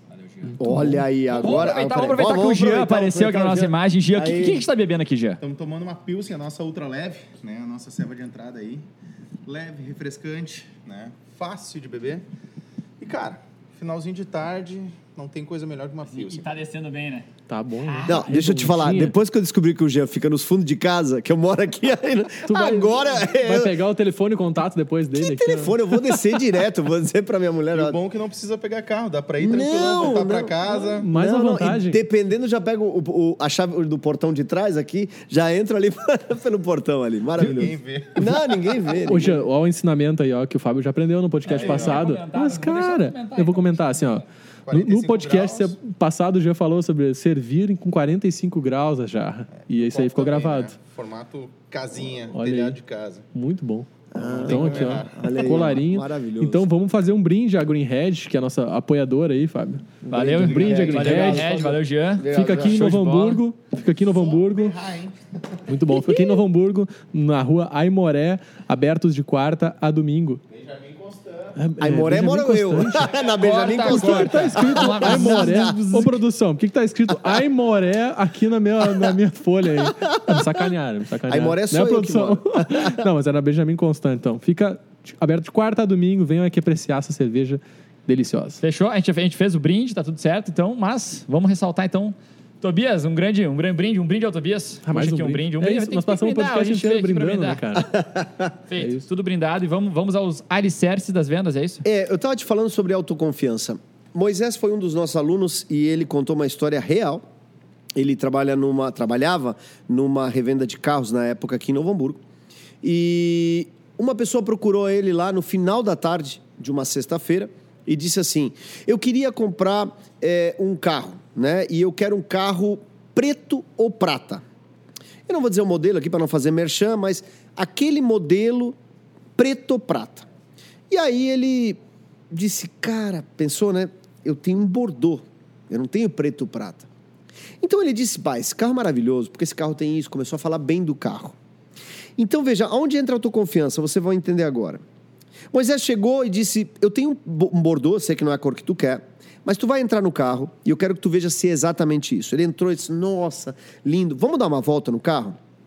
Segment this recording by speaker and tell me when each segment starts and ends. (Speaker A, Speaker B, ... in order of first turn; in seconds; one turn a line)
Speaker A: 0.2-0.5
Speaker B: 0.4-1.0
Speaker C: 0.6-4.6
Speaker A: 1.4-5.4
Speaker D: 5.4-8.8
Speaker D: 9.4-12.2
Speaker D: 13.0-16.5
Speaker A: 16.1-17.3
Speaker B: 17.5-19.1
Speaker A: 17.8-18.2
Speaker C: 18.0-23.8
Speaker B: 22.4-26.2
Speaker C: 25.1-28.0
Speaker D: 27.7-31.1
Speaker C: 29.4-39.4
Speaker B: 31.0-32.0
Speaker D: 37.4-39.0
Speaker B: 39.1-50.8
Speaker A: 41.5-44.2
Speaker D: 41.5-42.0
Speaker D: 44.7-45.7
Speaker D: 49.6-53.2
Speaker B: 52.3-52.8
Speaker B: 53.3-64.8
Speaker C: 54.1-56.7
Speaker D: 54.4-55.6
Speaker C: 60.0-63.1
Speaker A: 60.1-63.4
Speaker D: 64.0-65.6
Speaker B: 65.7-70.4
Speaker D: 70.5-71.6
Speaker B: 71.5-73.1
Speaker C: 71.8-76.0
Speaker A: 73.4-75.9
Speaker B: 73.7-88.6
Speaker C: 80.1-80.6
Speaker C: 81.3-83.0
Speaker A: 88.6-97.6
Speaker B: 94.8-97.9
Speaker C: 98.1-98.4
Speaker A: 98.7-101.8
Speaker B: 98.8-99.0
Speaker C: 101.8-107.2
Speaker C: 108.0-112.2
Speaker C: 112.8-124.4
Speaker C: 125.3-128.8
Speaker C: 129.3-130.3
Speaker C: 130.9-131.8
Speaker C: 132.3-136.9
Speaker C: 137.6-141.4
Speaker C: 142.2-144.8
Speaker C: 145.5-155.4